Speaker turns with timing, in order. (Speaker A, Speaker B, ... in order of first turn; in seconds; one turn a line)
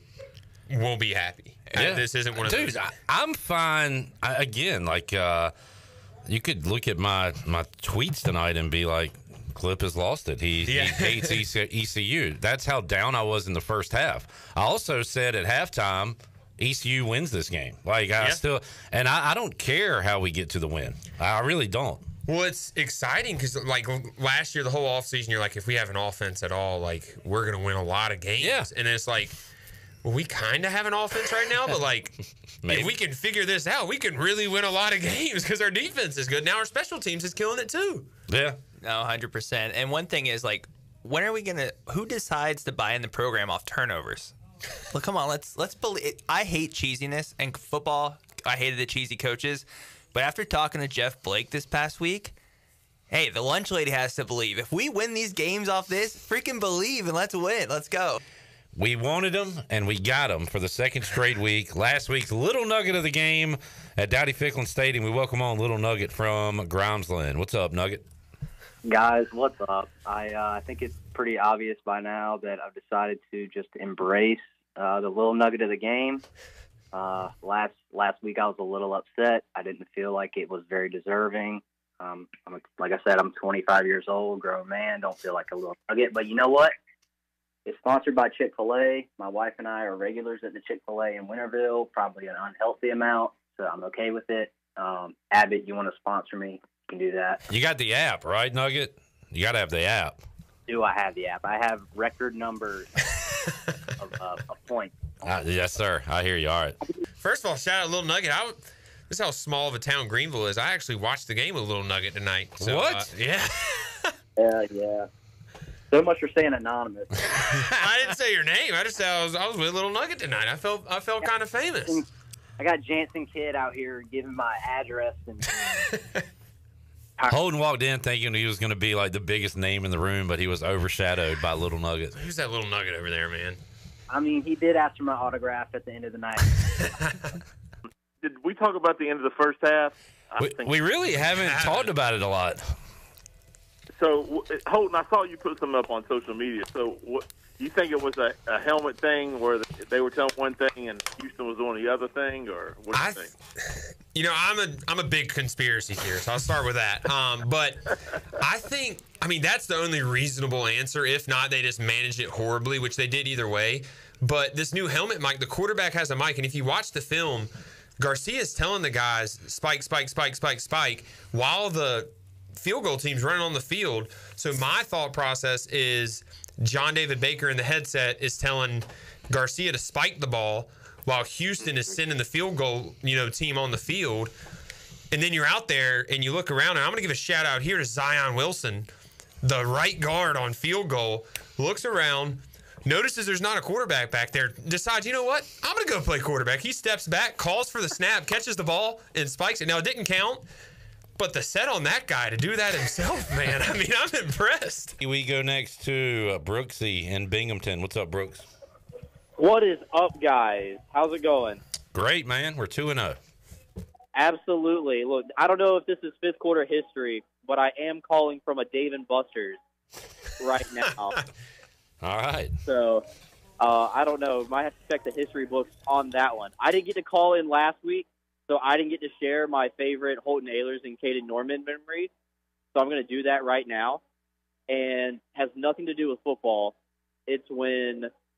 Speaker A: 0.7-2.8
Speaker B: 1.8-5.5
Speaker B: 6.3-22.0
Speaker A: 10.7-11.4
Speaker A: 22.3-29.4
Speaker B: 28.4-28.7
Speaker A: 30.0-38.1
Speaker B: 32.6-33.0
Speaker B: 38.3-38.6
Speaker C: 38.8-44.3
Speaker C: 44.9-52.3
Speaker C: 53.1-58.2
Speaker B: 58.8-68.0
Speaker D: 68.8-76.2
Speaker D: 76.9-86.7
Speaker D: 87.7-97.4
Speaker B: 97.5-100.2
Speaker D: 100.7-102.9
Speaker A: 103.2-103.7
Speaker D: 104.0-104.9
Speaker B: 105.2-106.8
Speaker A: 107.2-114.1
Speaker B: 112.6-113.1
Speaker D: 114.4-115.1
Speaker D: 115.9-117.3
Speaker A: 117.7-122.0
Speaker D: 122.6-125.5
Speaker A: 125.7-126.2
Speaker B: 127.3-132.1
Speaker A: 132.2-133.6
Speaker D: 134.1-136.4
Speaker A: 136.6-137.3
Speaker E: 138.2-140.8
Speaker B: 140.4-142.7
Speaker A: 141.4-141.9
Speaker E: 144.0-153.3
Speaker A: 152.9-184.3
Speaker A: 185.1-188.9
Speaker A: 189.4-200.4
Speaker A: 201.2-205.0
Speaker B: 205.0-208.5
Speaker F: 209.4-211.6
Speaker B: 211.9-213.2
Speaker F: 214.2-219.6
Speaker F: 220.4-221.2
Speaker B: 222.0-222.5
Speaker F: 222.7-223.1
Speaker F: 223.6-232.1
Speaker F: 232.7-234.0
Speaker F: 234.7-236.8
Speaker F: 237.3-238.1